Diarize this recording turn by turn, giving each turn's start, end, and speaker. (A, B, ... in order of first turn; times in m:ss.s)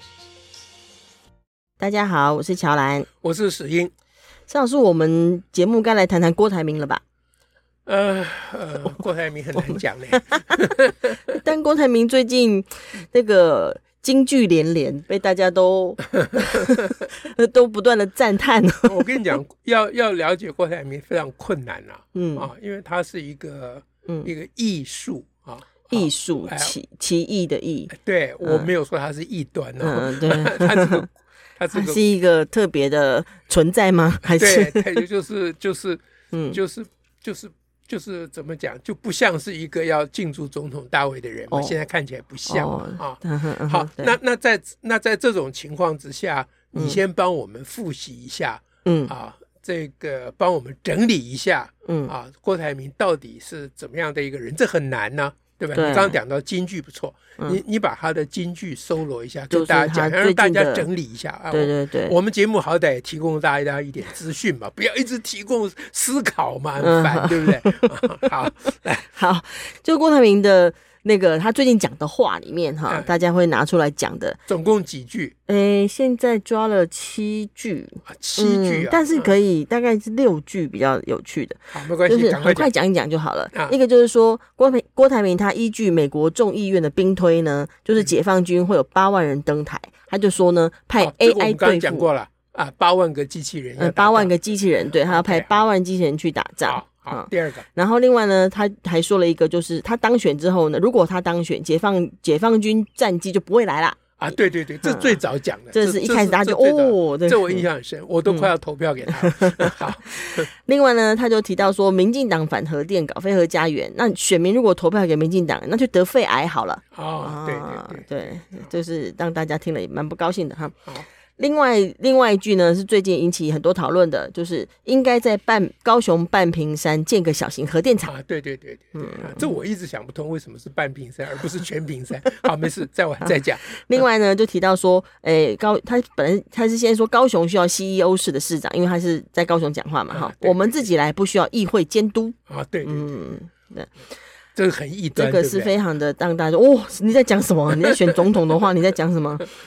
0:01.8-0:03.1 A
0:03.2-0:03.9 B
0:04.5-0:07.0 A
0:07.8-0:11.4 B
0:09.6-0:10.6 A
0:11.3-0:19.3 A
0:16.2-0:16.8 B
0:18.8-0:26.8 B
0:22.1-0:22.5 A
0:24.0-0:24.3 A
0:25.9-0:28.7 A
0:27.9-0:32.0 B
0:29.8-0:31.1 A
0:31.7-0:35.0 A
0:34.4-1:09.0 B
0:36.3-0:36.6 A
0:41.5-0:41.8 A
0:42.4-0:44.2 A
0:46.7-0:47.0 A
0:48.8-0:49.1 A
0:51.8-0:52.1 A
0:55.7-0:56.2 A
0:59.5-1:00.9 A
1:01.5-1:02.2 A
1:06.8-1:08.3 A
1:09.1-1:14.4 A
1:14.5-1:15.3 B
1:15.5-1:32.1 A
1:18.1-1:19.3 B
1:21.7-1:22.7 B
1:31.0-1:34.3 B
1:33.8-1:44.0 A
1:34.9-1:35.6 B
1:36.6-1:37.6 B
1:44.2-1:50.5 B
1:44.8-1:45.2 A
1:45.7-1:47.6 A
1:49.1-2:00.8 A
1:56.9-1:58.7 B
2:01.4-2:08.1 A
2:08.1-2:14.0 B
2:08.9-2:09.5 A
2:13.2-2:23.9 A
2:20.1-2:20.9 B
2:22.5-2:23.1 B
2:24.6-2:25.7 B
2:25.1-2:29.5 A